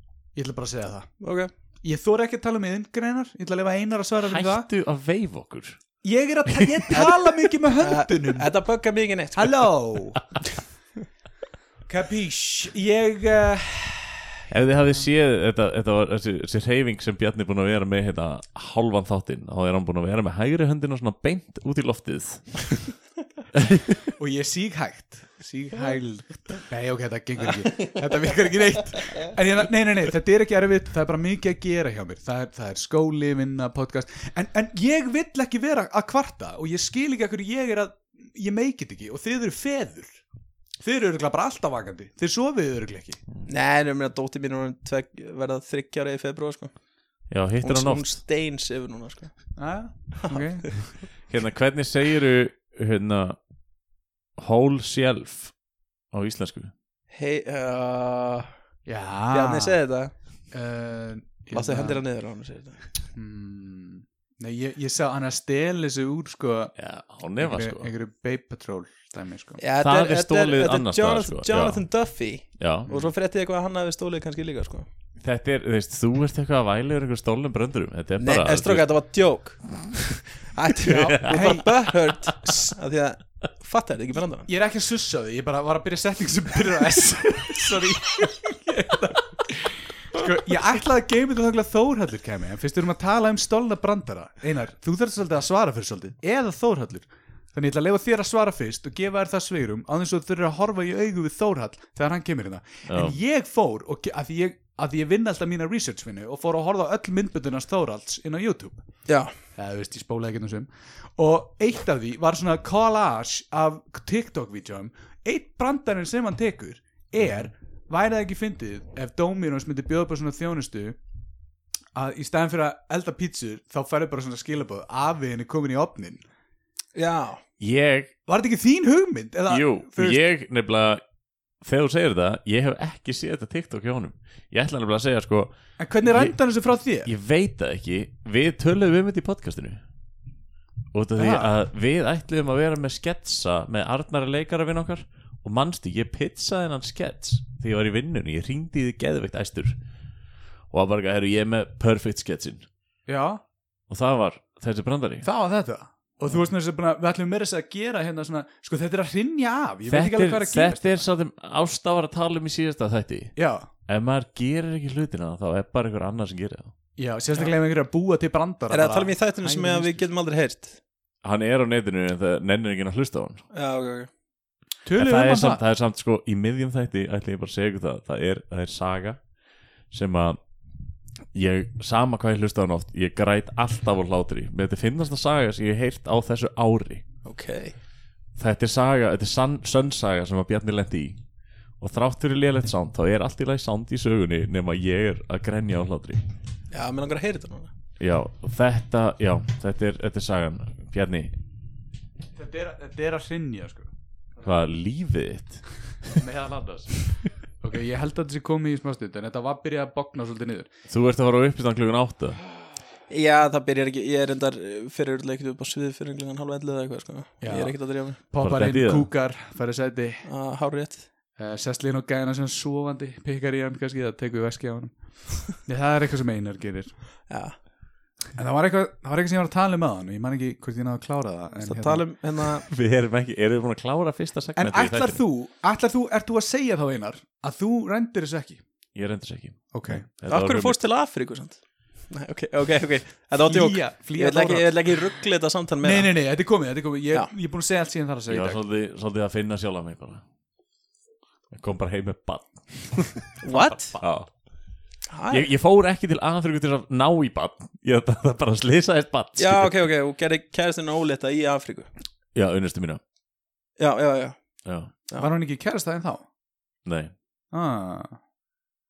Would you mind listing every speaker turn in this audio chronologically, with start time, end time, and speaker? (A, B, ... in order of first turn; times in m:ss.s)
0:00.3-0:01.1 A
0:01.2-0:01.5 B
0:01.8-0:04.7 A
0:04.2-0:05.8 C
0:06.0-0:08.5 A
0:06.5-0:07.0 C
0:07.8-0:09.6 B
0:09.3-0:10.2 A
0:11.9-0:14.4 A
0:14.5-0:22.8 C
0:23.6-0:24.0 C
0:24.2-0:40.2 A
0:27.5-0:28.0 B
0:40.8-0:43.2 A
0:43.5-0:46.7 B
0:47.3-0:48.1 C
0:47.6-0:49.3 B
0:49.6-0:50.7 A
0:50.2-0:50.7 B
0:51.3-0:53.4 C
0:54.4-0:55.5 C
0:56.1-0:56.7 C
0:57.1-0:58.5 B
0:58.9-0:59.8 A
0:59.3-1:00.1 B
1:00.5-1:02.0 A
1:01.5-1:02.8 B
1:03.1-1:06.8 A
1:06.8-1:07.9 C
1:07.4-1:09.6 A
1:09.6-1:14.9 B
1:09.8-1:11.9 C
1:12.6-1:12.9 C
1:15.2-1:18.9 C
1:18.2-1:19.6 B
1:20.5-1:24.5 B
1:20.8-1:21.5 C
1:21.3-1:21.9 A
1:24.5-1:48.8 A
1:42.9-1:43.2 C
1:49.1-1:49.3 B
1:49.6-2:01.0 A
2:02.0-2:06.2 A
2:07.0-2:07.4 B
2:07.6-2:08.1 C
2:08.3-2:10.2 A
2:09.5-2:11.0 C
2:11.6-2:15.5 C
2:15.8-2:17.1 A
2:16.0-2:16.3 C
2:17.0-2:19.8 C
2:20.9-2:29.8 C
2:21.2-2:21.5 A
2:30.7-2:32.7 C
2:33.1-2:33.4 A
2:33.9-2:35.3 C
2:35.2-2:41.1 A
2:39.9-2:43.3 C
2:43.4-2:43.7 A
2:43.9-2:46.7 C
2:47.0-2:50.0 A
2:48.7-2:50.8 B
2:51.2-2:53.4 C
2:53.5-2:54.1 B
2:54.8-2:55.6 A
2:55.0-2:59.2 C
2:59.9-3:00.4 C
3:01.3-3:07.0 C
3:07.2-3:07.8 B
3:08.4-3:11.2 C
3:11.8-3:16.2 C
3:16.7-3:17.7 B
3:18.0-3:21.3 C
3:22.4-3:23.9 A
3:24.4-3:25.6 C
3:26.1-3:26.9 A
3:27.6-3:30.7 A
3:30.9-3:32.4 C
3:33.1-3:38.2 B
3:37.4-3:40.3 A
3:38.4-3:39.1 C
3:40.2-3:41.1 B
3:41.4-3:44.9 A
3:45.5-3:46.9 A
3:47.3-3:47.5 B
3:48.4-3:52.0 A
3:51.6-3:52.6 B
3:52.7-3:55.2 C
3:54.6-3:58.6 A
3:59.0-4:00.8 C
3:59.7-4:00.0 A
4:00.2-4:06.1 B
4:03.5-4:04.8 A
4:05.8-4:08.6 A
4:08.3-4:10.2 C
4:11.5-4:14.3 C
4:13.4-4:14.0 B
4:15.1-4:15.5 B
4:15.3-4:19.9 C
4:19.4-4:21.9 B
4:22.3-4:23.0 C
4:23.8-4:24.4 B
4:24.6-4:24.9 C
4:25.2-4:26.2 A
4:26.8-4:27.1 C
4:27.5-4:28.2 A